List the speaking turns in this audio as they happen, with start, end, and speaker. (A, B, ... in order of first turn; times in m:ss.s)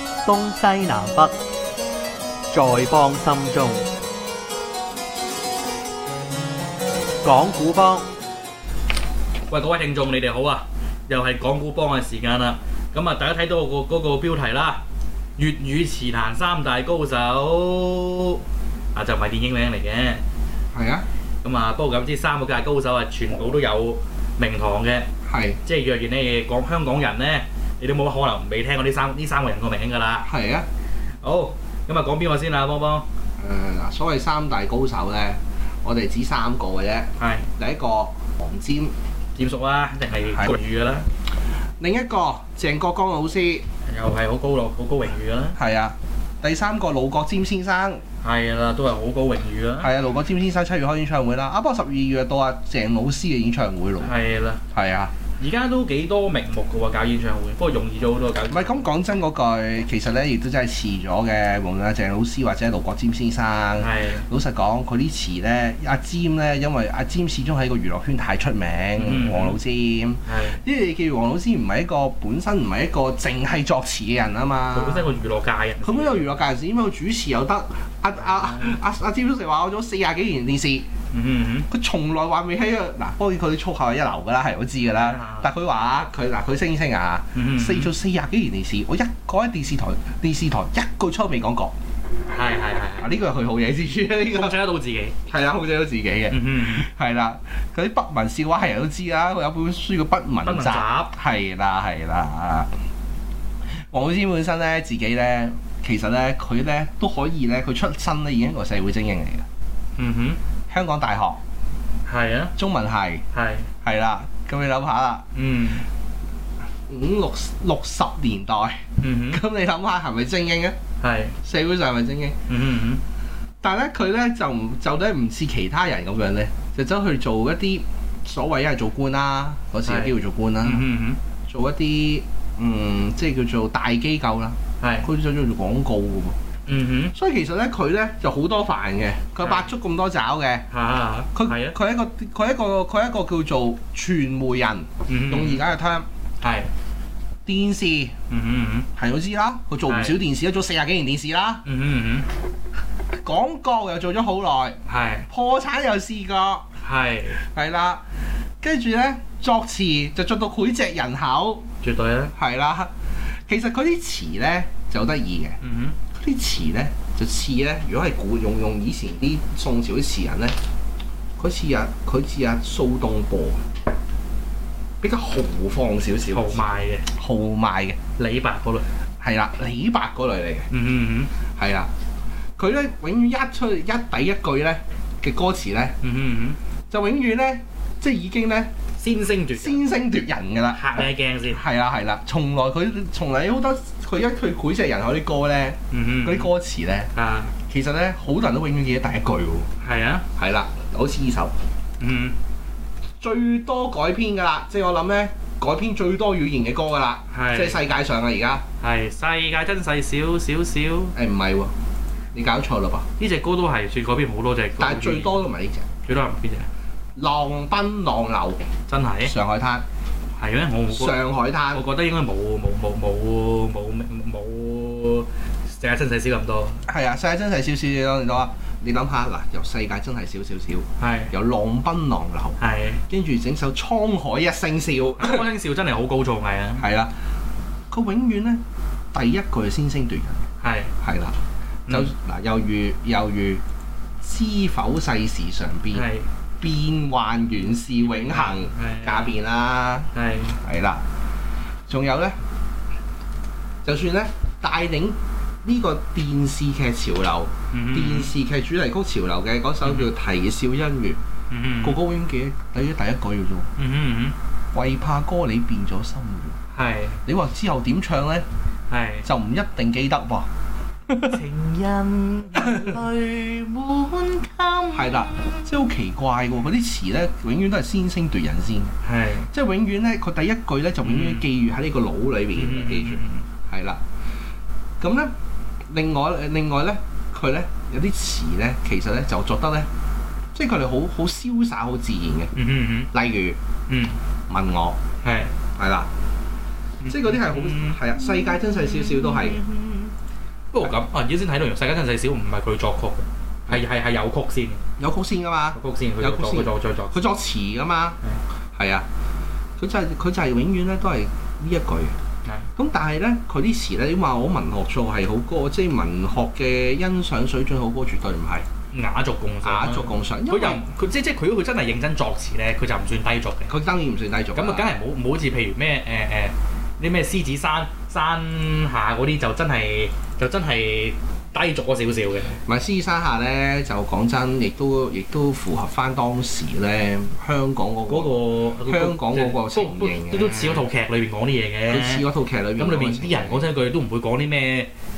0:00.2-0:01.3 A
0:02.5-0:03.8 A
0:07.2-0:08.0 A
0:09.5-0:14.8 B
0:15.4-0:18.4 B
0:18.9-0:20.2 B
0:20.7-0:21.0 C
0:21.4-0:25.1 B
0:25.2-0:25.6 C
0:25.6-0:30.3 B
0:30.2-0:30.7 C
0:31.2-0:33.0 B
0:33.4-0:38.9 C
0:37.2-0:37.5 B
0:39.4-0:41.1 B
0:41.8-0:43.6 C
0:43.9-0:45.6 B
0:45.6-0:48.0 C
0:48.2-0:49.9 B
0:49.8-0:54.1 C
0:54.0-0:54.6 B
0:54.7-0:55.1 C
0:55.4-0:58.9 B
0:58.5-1:15.1 C
1:03.8-1:04.3 B
1:09.0-1:09.6 B
1:10.2-1:10.6 B
1:14.7-1:16.2 B
1:15.8-1:20.8 C
1:18.2-1:18.8 B
1:21.1-1:21.7 B
1:21.7-1:31.7 C
1:24.8-1:25.5 B
1:27.3-1:27.9 B
1:32.3-1:33.1 B
1:33.0-1:34.6 C
1:34.3-1:35.2 B
1:35.3-1:42.7 C
1:36.3-1:36.9 B
1:40.4-1:41.1 B
1:43.6-1:49.4 C
1:50.0-1:50.4 B
1:50.7-1:51.4 C
1:52.0-1:52.5 B
1:52.6-1:53.2 C
1:53.3-1:53.7 B
1:53.8-1:55.2 C
1:55.3-1:55.9 B
1:56.9-2:00.8 C
1:59.0-1:59.4 B
2:01.0-2:01.4 B
2:01.4-2:02.4 C
2:02.5-2:03.0 B
2:03.6-2:10.9 C
2:09.8-2:11.2 B
2:11.5-2:16.4 C
2:14.8-2:15.1 B
2:16.7-2:17.1 B
2:17.1-2:20.7 C
2:19.4-2:19.7 B
2:20.7-2:21.7 B
2:21.3-2:26.1 C
2:25.1-2:25.6 B
2:26.4-2:26.7 B
2:27.4-2:28.1 C
2:28.3-2:28.9 B
2:28.9-2:31.6 C
2:29.9-2:30.2 B
2:31.6-2:32.3 B
2:33.1-2:34.8 C
2:34.8-2:35.3 B
2:35.3-2:36.6 C
2:36.8-2:37.4 B
2:37.3-2:38.0 C
2:38.6-2:41.6 C
2:41.8-2:42.3 B
2:42.3-2:42.9 C
2:43.5-2:45.6 C
2:45.6-2:46.0 B
2:46.1-2:50.6 C
2:51.4-2:53.7 C
2:55.0-2:58.0 C
2:56.3-2:57.1 B
2:58.2-2:58.9 B
2:59.2-3:00.7 C
3:00.7-3:01.3 B
3:01.6-3:01.9 C
3:02.6-3:06.0 C
3:06.0-3:06.6 B
3:06.9-3:08.7 C
3:09.0-3:09.8 B
3:09.5-3:10.8 C
3:10.7-3:11.6 B
3:11.5-3:17.1 C
3:15.9-3:16.5 B
3:17.1-3:17.5 B
3:17.7-3:19.7 C
3:19.8-3:20.2 B
3:20.4-3:21.5 C
3:22.0-3:22.4 B
3:23.2-3:28.6 C
3:27.3-3:27.8 B
3:28.8-3:31.2 B
3:31.1-3:31.7 C
3:32.3-3:33.1 C
3:33.2-3:35.4 B
3:34.8-3:35.9 C
3:36.0-3:36.7 B
3:37.2-3:38.6 C
3:38.9-3:39.3 B
3:39.2-3:39.8 C
3:40.4-3:46.8 B
3:40.9-3:41.9 C
3:46.8-3:55.4 C
3:51.0-3:51.3 B
3:52.6-3:53.0 B
3:55.1-3:56.9 B
3:56.8-3:57.1 C
3:57.9-3:58.6 C
3:59.1-4:00.4 C
4:00.6-4:00.9 B
4:01.0-4:01.4 C
4:01.9-4:03.6 C
4:04.2-4:06.0 C
4:05.9-4:06.3 B
4:06.6-4:10.1 C
4:08.0-4:09.3 B
4:10.1-4:10.6 B
4:10.6-4:11.0 C
4:11.9-4:12.4 C
4:13.8-4:21.2 C
4:17.7-4:18.3 B
4:21.5-4:22.0 B
4:21.8-4:23.7 C
4:23.8-4:24.4 B
4:24.7-4:26.6 C
4:26.7-4:27.2 B
4:27.2-4:28.4 C
4:28.9-4:29.2 B
4:29.2-4:30.5 C
4:31.2-4:35.2 B
4:34.9-4:38.9 C
4:39.0-4:39.5 B
4:39.5-4:44.0 C
4:41.0-4:41.5 B
4:42.6-4:43.4 B
4:45.0-4:45.3 C
4:45.9-4:49.9 C
4:50.5-4:52.5 C
4:52.5-4:53.1 B
4:53.1-4:53.6 C
4:53.9-4:54.2 B
4:54.5-4:55.0 C
4:55.2-4:55.5 B
4:55.8-4:56.1 C
4:57.0-4:58.0 B
4:57.1-4:59.6 C
4:59.4-5:00.1 B
5:00.7-5:04.8 B
5:05.0-5:08.2 C
5:05.7-5:07.2 B
5:08.7-5:09.0 C
5:09.8-5:12.2 C
5:12.8-5:18.7 C
5:18.9-5:23.7 B
5:19.6-5:20.8 C
5:23.7-5:25.0 C
5:24.5-5:32.6 B
5:32.6-5:40.8 C
5:38.1-5:42.2 B
5:41.8-5:43.6 C
5:42.8-5:44.9 B